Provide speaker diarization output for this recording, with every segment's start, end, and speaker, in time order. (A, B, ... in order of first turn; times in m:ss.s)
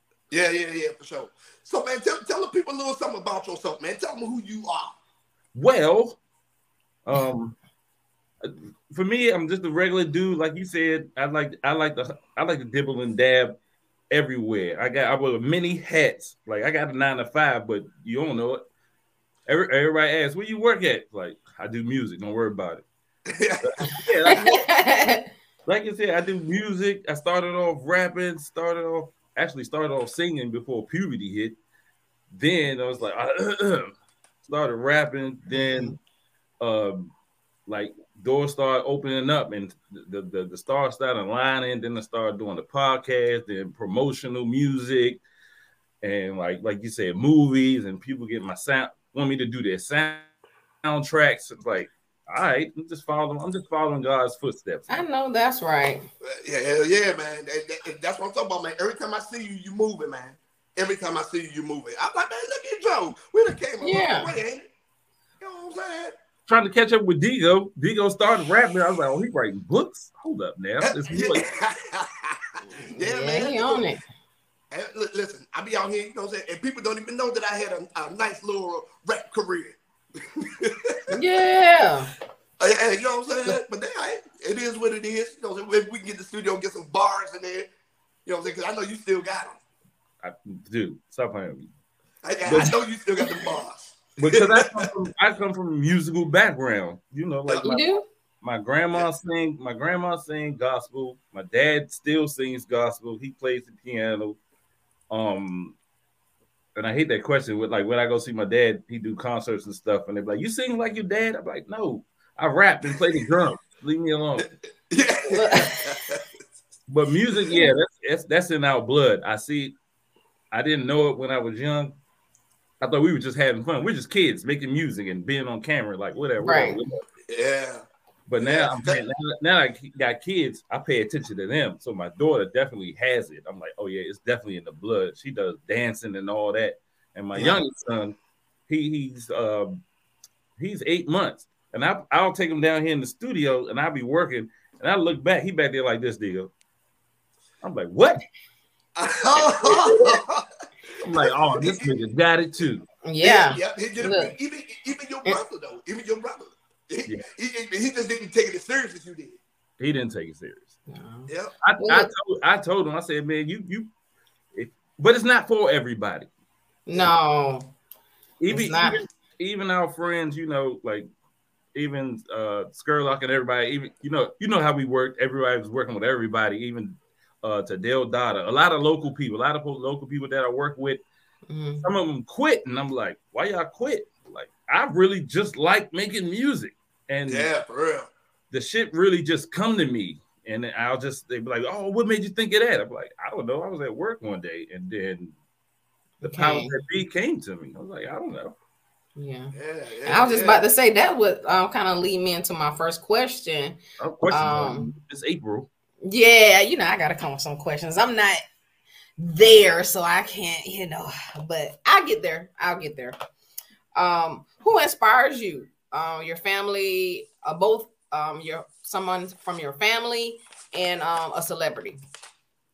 0:00.3-0:05.0 A
0:05.5-0:06.2 B
0:07.0-0:07.5 B
0:08.4-0:13.6 B
0:14.1-0:18.6 B
0:19.5-0:22.8 B
0:23.3-0:23.7 A
0:23.6-0:24.7 B
0:24.3-0:25.3 C
0:25.6-0:31.6 B
0:32.3-0:36.0 B
0:35.5-0:36.0 C
0:36.6-0:37.1 B
0:37.7-0:45.2 B
0:46.0-0:50.3 B
0:50.8-0:55.0 B
0:54.9-0:56.0 C
0:56.2-1:04.7 A
1:03.8-1:04.3 C
1:05.4-1:06.1 A
1:06.5-1:11.4 B
1:10.8-1:12.4 A
1:12.8-1:14.0 C
1:13.0-1:13.9 A
1:14.7-1:21.2 A
1:21.1-1:22.1 C
1:22.6-1:27.7 A
1:28.2-1:29.6 A
1:30.2-1:31.7 B
1:32.2-1:34.9 A
1:32.5-1:32.8 B
1:34.2-1:44.4 B
1:37.6-1:38.0 C
1:45.1-1:45.8 B
1:46.8-1:54.5 B
1:54.9-1:56.2 A
1:55.3-1:56.0 C
1:56.9-1:59.8 B
2:00.5-2:02.0 B
2:02.8-2:07.0 B
2:06.4-2:06.8 C
2:07.3-2:07.8 A
2:08.3-2:18.2 B
2:08.4-2:09.0 A
2:17.4-2:17.6 A
2:18.7-2:19.8 B
2:20.6-2:26.5 B
2:27.6-2:28.2 B
2:29.0-2:31.9 A
2:29.4-2:30.2 B
2:31.0-2:32.8 B
2:33.0-2:34.4 C
2:33.2-2:39.4 A
2:39.8-2:40.7 B
2:40.9-2:42.1 C
2:41.6-2:43.9 B
2:44.5-2:46.3 B
2:46.9-2:47.7 C
2:48.4-2:51.1 B
2:48.5-2:49.0 C
2:51.8-3:01.0 B
3:01.5-3:01.8 C
3:01.8-3:07.5 B
3:07.3-3:08.1 A
3:08.5-3:15.4 B
3:16.2-3:18.5 B
3:16.2-3:16.7 C
3:19.2-3:19.5 C
3:19.5-3:20.6 A
3:20.0-3:24.9 C
3:24.0-3:25.7 B
3:26.0-3:28.4 C
3:29.2-3:33.2 C
3:34.0-3:42.0 C